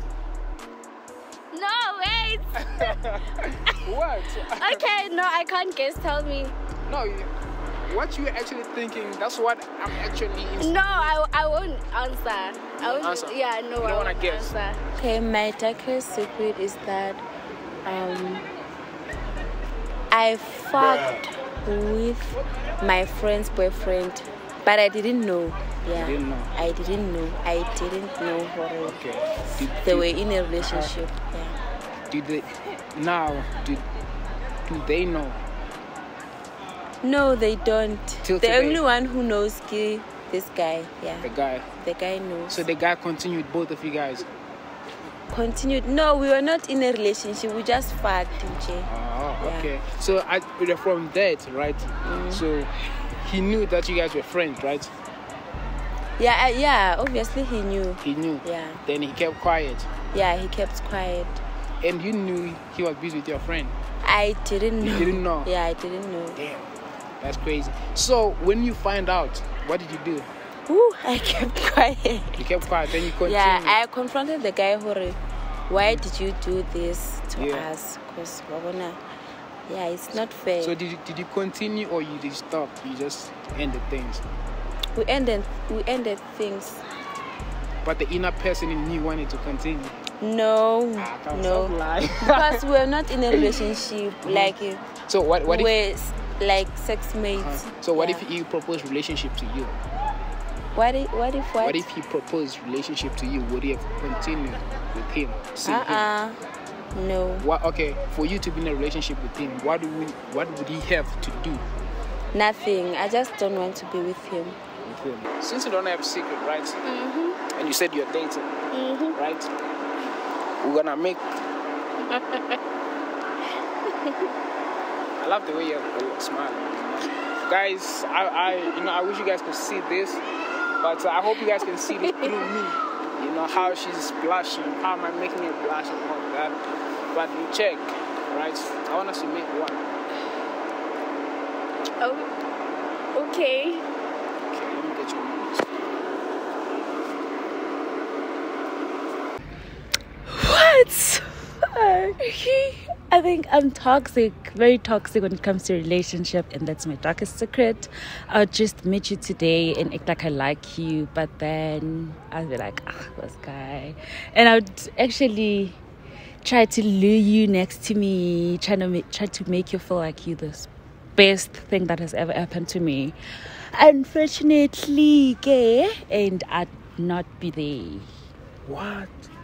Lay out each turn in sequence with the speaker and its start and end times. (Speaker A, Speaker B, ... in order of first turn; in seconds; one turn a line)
Speaker A: 1.5-3.0
Speaker B: 2.7-4.8
Speaker A: 4.5-6.5
Speaker B: 6.9-7.3
Speaker B: 7.9-11.2
Speaker A: 10.6-14.8
Speaker B: 12.8-14.5
Speaker C: 15.0-17.2
Speaker C: 17.9-18.5
Speaker C: 20.1-29.0
Speaker B: 25.9-26.5
Speaker B: 28.8-30.9
Speaker C: 29.6-31.6
Speaker B: 32.1-33.9
Speaker B: 34.7-35.4
Speaker C: 37.0-42.6
Speaker B: 38.2-38.8
Speaker B: 41.2-41.7
Speaker B: 42.5-44.3
Speaker C: 45.3-48.9
Speaker B: 48.9-54.9
Speaker C: 49.4-49.7
Speaker C: 52.0-52.4
Speaker C: 56.2-58.8
Speaker B: 58.0-59.9
Speaker C: 60.1-61.4
Speaker B: 61.8-63.8
Speaker C: 64.0-66.4
Speaker B: 64.8-65.5
Speaker B: 66.3-66.7
Speaker B: 67.2-70.3
Speaker C: 70.7-72.5
Speaker B: 72.4-73.8
Speaker C: 73.2-75.2
Speaker C: 75.7-79.0
Speaker B: 75.8-76.0
Speaker B: 77.4-77.7
Speaker C: 79.7-80.8
Speaker B: 80.6-84.2
Speaker C: 85.0-86.8
Speaker B: 87.8-90.0
Speaker C: 90.2-91.8
Speaker B: 91.0-92.6
Speaker C: 92.3-94.8
Speaker B: 94.2-94.5
Speaker B: 95.1-95.8
Speaker C: 95.5-98.3
Speaker B: 97.4-99.8
Speaker C: 100.7-101.8
Speaker B: 101.6-106.1
Speaker C: 105.6-106.4
Speaker C: 106.9-107.5
Speaker B: 107.4-111.6
Speaker C: 112.3-114.6
Speaker B: 114.8-116.8
Speaker A: 116.8-117.4
Speaker B: 117.5-118.6
Speaker A: 118.7-119.2
Speaker B: 119.1-119.5
Speaker B: 120.6-121.2
Speaker A: 122.1-122.6
Speaker B: 125.2-130.2
Speaker B: 130.8-136.6
Speaker B: 137.1-139.8
Speaker A: 142.0-142.3
Speaker A: 143.1-143.8
Speaker B: 144.5-145.8
Speaker D: 150.3-165.8
Speaker D: 166.4-178.1
Speaker B: 178.7-179.3